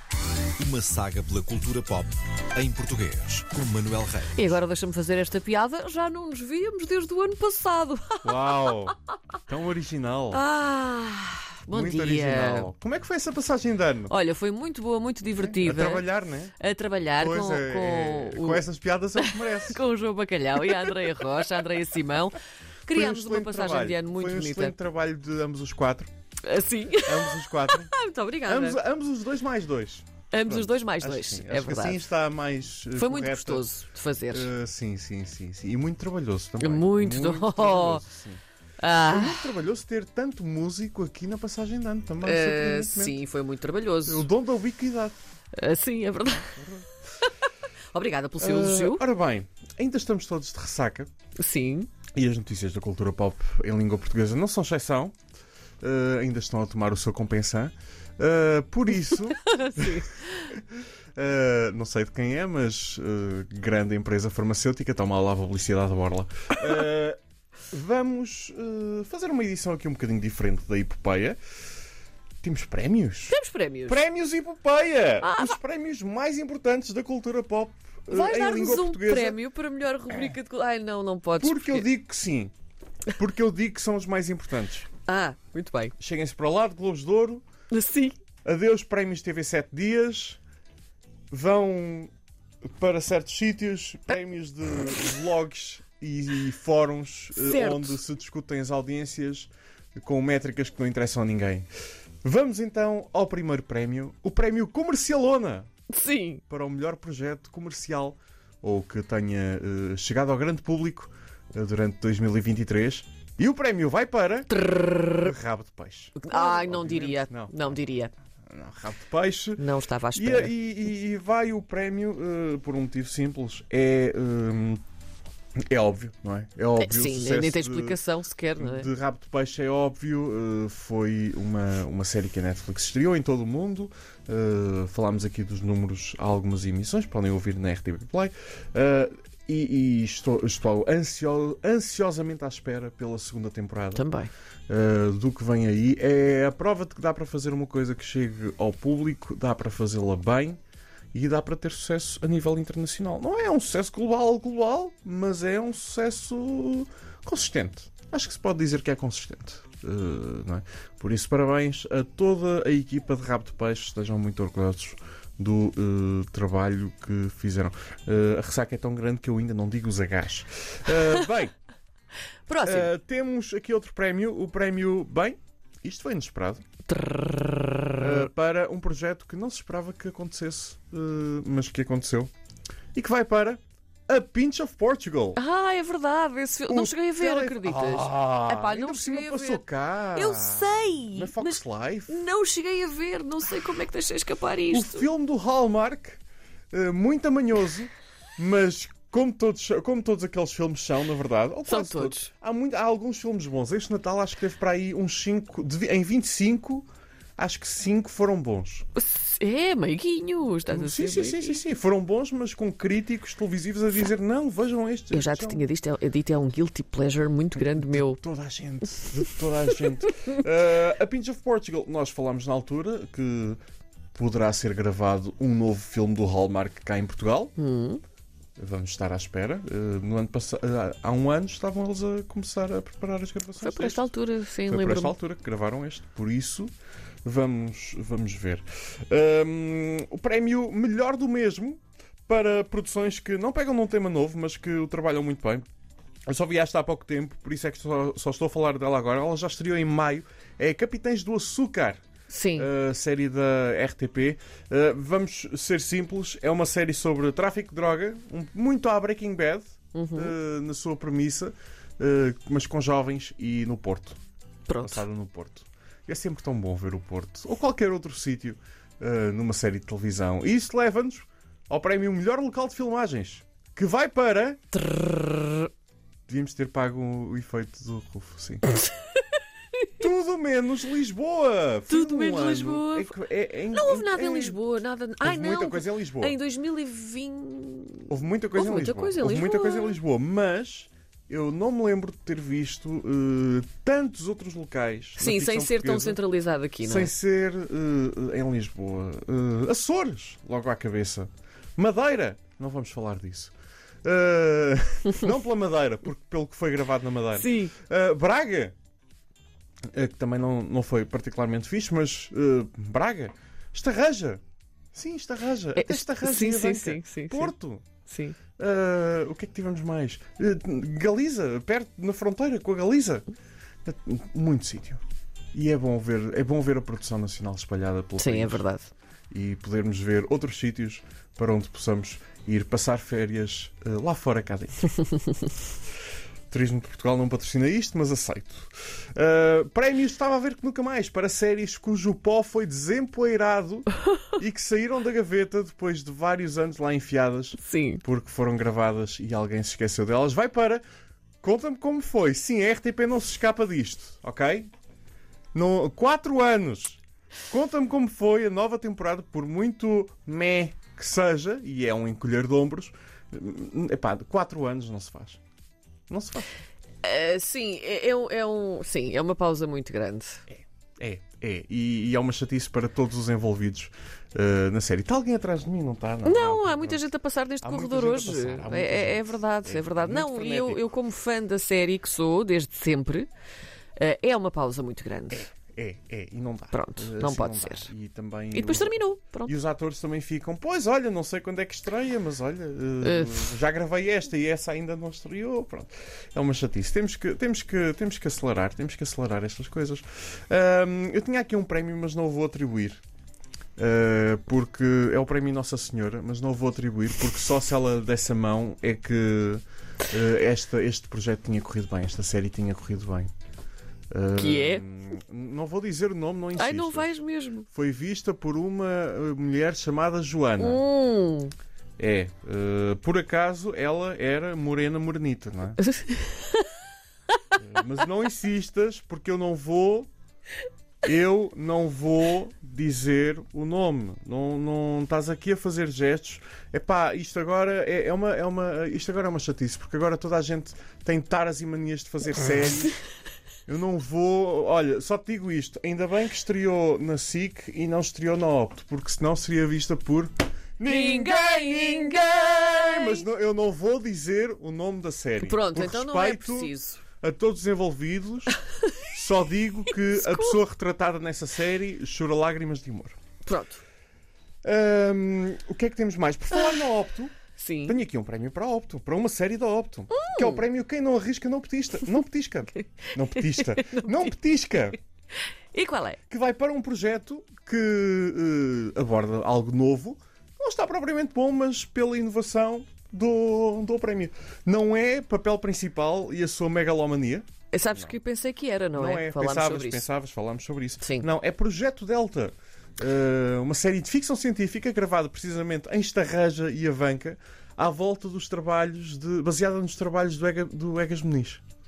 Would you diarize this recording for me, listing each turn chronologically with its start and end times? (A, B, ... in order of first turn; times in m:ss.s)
0:00.6-0:04.2 A
0:02.6-0:04.3 B
0:04.3-0:08.9 C
0:08.2-0:09.0 B
0:09.5-0:10.4 B
0:10.3-0:12.7 C
0:11.7-0:14.1 B
0:14.1-0:18.6 C
0:15.4-0:16.5 B
0:17.2-0:19.8 B
0:19.2-0:24.8 C
0:22.9-0:26.1 B
0:26.4-0:28.8 C
0:27.0-0:27.9 B
0:28.4-0:33.6 B
0:30.3-0:32.0 C
0:33.0-0:34.5 C
0:34.3-0:38.4 B
0:36.6-0:38.0 C
0:38.8-0:39.5 C
0:39.0-0:43.2 B
0:42.2-0:44.3 C
0:44.0-0:45.2 B
0:45.5-0:47.3 C
0:46.4-0:46.8 B
0:47.9-0:49.0 C
0:48.4-0:51.1 B
0:51.4-0:51.9 C
0:52.1-0:55.2 B
0:55.8-1:07.2 B
0:59.0-1:00.5 C
1:07.7-1:11.4 B
1:12.4-1:19.4 B
1:13.3-1:14.0 C
1:15.2-1:15.6 C
1:18.1-1:21.9 C
1:21.4-1:22.5 B
1:23.1-1:24.9 B
1:25.0-1:25.9 C
1:26.0-1:27.4 B
1:27.7-1:28.2 C
1:28.4-1:30.4 B
1:31.3-1:32.1 B
1:32.7-1:41.7 B
1:37.3-1:38.0 C
1:42.2-1:45.7 B
1:45.9-1:46.4 C
1:46.5-1:57.8 B
1:54.5-1:55.3 C
1:56.2-1:58.1 C
1:58.4-2:04.8 B
1:59.6-2:00.5 C
2:05.7-2:08.0 B
2:06.8-2:08.9 C
2:08.6-2:24.0 B
2:23.9-2:24.3 C
2:24.7-2:30.6 B
2:31.1-2:51.5 B
2:52.5-2:52.9 C
2:52.6-2:56.6 B
2:56.9-2:58.3 C
2:58.0-3:02.3 B
3:02.9-3:05.4 B
3:05.3-3:09.6 C
3:06.7-3:12.2 B
3:10.1-3:15.1 C
3:14.7-3:16.2 B
3:16.7-3:28.8 B
3:21.6-3:22.3 C
3:28.9-3:31.6 C
3:30.7-3:35.7 B
3:35.1-3:38.2 C
3:37.6-3:43.6 B
3:44.1-3:47.5 B
3:47.6-3:48.0 C
3:48.6-3:54.1 B
3:53.6-3:55.2 C
3:54.7-3:56.7 B
3:57.2-4:05.6 B
4:06.3-4:12.0 B
4:12.3-4:12.7 C
4:12.5-4:24.2 B
4:19.9-4:20.4 C
4:24.7-4:25.0 C
4:24.8-4:34.6 B
4:34.7-4:35.7 C
4:36.3-4:38.7 B
4:40.0-4:44.6 B
4:41.9-4:43.1 C
4:43.7-4:50.0 C
4:45.2-4:46.4 B
4:48.1-4:56.2 B
4:55.2-4:57.1 C
4:56.8-5:03.5 B
5:04.0-5:08.7 B
5:07.3-5:07.7 C
5:09.9-5:14.4 B
5:14.9-5:17.9 B
5:15.8-5:17.5 C
5:18.0-5:18.4 C
5:18.6-5:23.3 B
5:23.8-5:25.0 B
5:25.5-5:28.6 B
5:28.2-5:28.9 C
5:29.3-5:34.9 B
5:36.5-5:50.8 B
5:47.6-5:48.0 C
5:51.4-5:54.7 B
5:55.5-6:05.4 B
6:06.1-6:06.5 B
6:07.0-6:10.4 C
6:10.5-6:17.1 B
6:16.2-6:23.3 C
6:17.6-6:20.9 B
6:24.0-6:25.5 C
6:25.3-6:43.0 B
6:26.7-6:27.9 C
6:28.5-6:29.5 C
6:33.0-6:33.6 C
6:43.8-6:53.3 B
6:54.1-7:00.8 B
6:54.3-6:54.8 C
6:56.5-6:57.7 C
7:00.6-7:01.5 C
7:02.0-7:05.8 B
7:05.8-7:06.7 C
7:07.5-7:10.1 B
7:11.0-7:23.0 B
7:23.7-7:43.2 B
7:30.8-7:33.2 C
7:35.4-7:37.0 C
7:39.9-7:40.6 C
7:43.4-7:43.8 C
7:44.6-7:55.0 B
7:47.6-7:48.0 C
7:50.1-7:50.6 C
7:53.3-7:54.4 C
7:55.7-7:56.2 C
7:56.3-8:08.2 B
8:07.7-8:10.1 C
8:08.9-8:21.6 B
8:11.0-8:11.3 C